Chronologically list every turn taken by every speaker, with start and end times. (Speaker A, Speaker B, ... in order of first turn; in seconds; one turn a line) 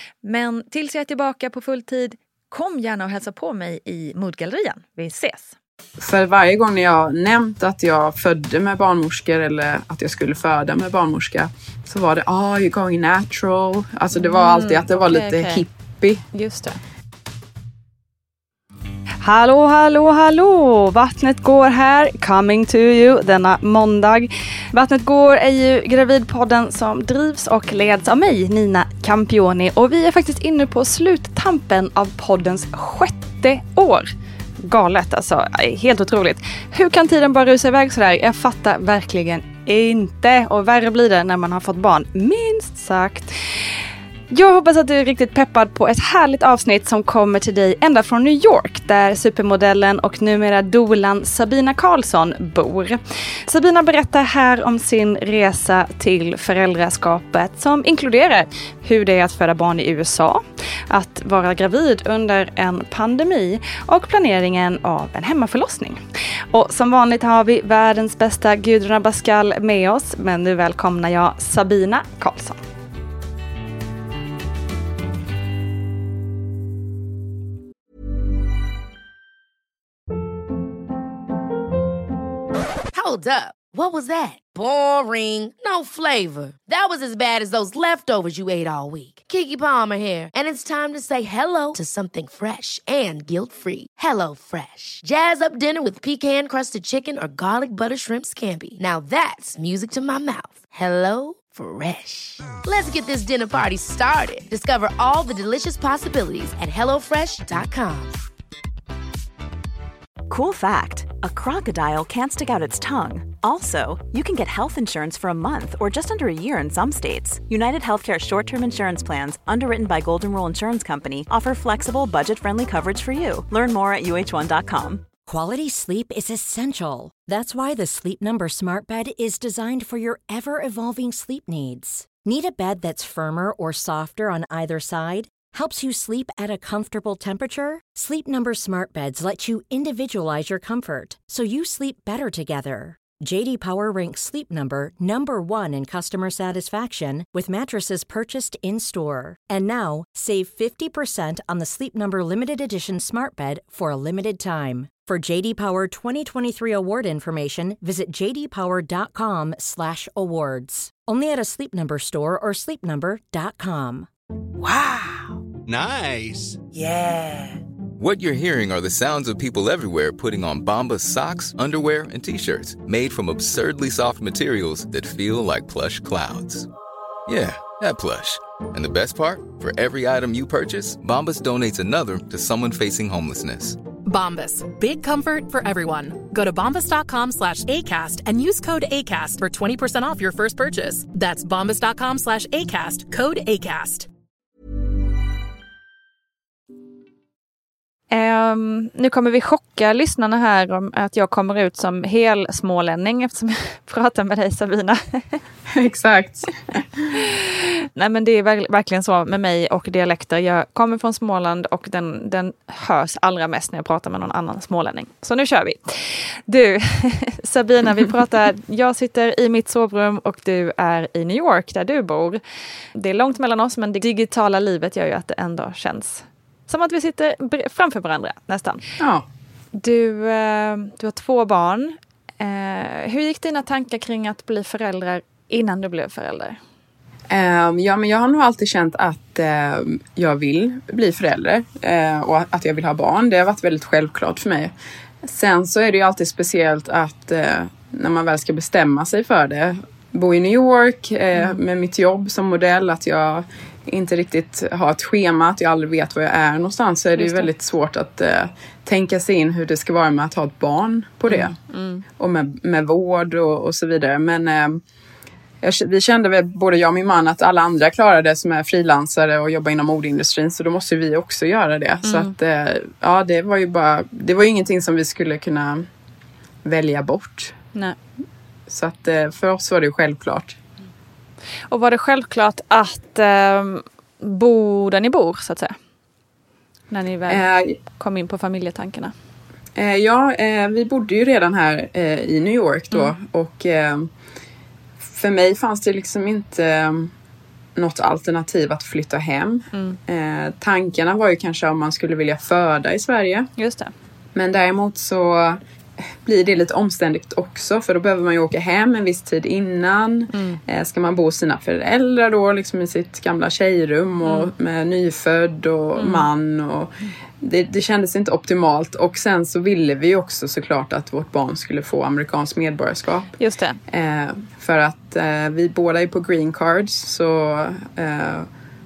Speaker A: 0.2-5.5
Speaker B: 6.0-16.2
Speaker A: 14.1-15.7
Speaker A: 16.3-16.8
Speaker A: 19.2-43.7
Speaker A: 44.3-72.6
Speaker C: 82.9-108.2
Speaker D: 110.3-125.0
Speaker E: 125.3-164.1
Speaker C: 164.7-165.2
Speaker F: 168.0-176.7
Speaker F: 177.3-183.8
Speaker G: 184.0-194.1
Speaker A: 198.1-205.4
Speaker B: 205.7-207.1
Speaker A: 207.2-222.4
Speaker A: 222.9-228.8
Speaker B: 229.0-229.2
Speaker A: 229.7-236.6
Speaker B: 237.3-261.6
Speaker A: 251.3-251.6
Speaker A: 257.2-257.5
Speaker A: 261.3-262.0
Speaker B: 262.2-264.8
Speaker B: 265.6-275.9
Speaker A: 272.0-272.3
Speaker B: 276.6-277.6
Speaker B: 278.7-280.6
Speaker A: 281.7-285.8
Speaker A: 286.9-287.4
Speaker B: 287.3-287.8
Speaker A: 287.9-289.1
Speaker B: 289.8-294.1
Speaker B: 295.0-297.1
Speaker B: 297.8-303.5
Speaker A: 299.7-300.0
Speaker A: 303.6-303.9
Speaker B: 304.3-305.6
Speaker B: 306.2-323.3
Speaker A: 310.3-310.6
Speaker A: 314.2-314.5
Speaker A: 316.0-316.3
Speaker A: 323.4-323.8
Speaker B: 323.9-328.5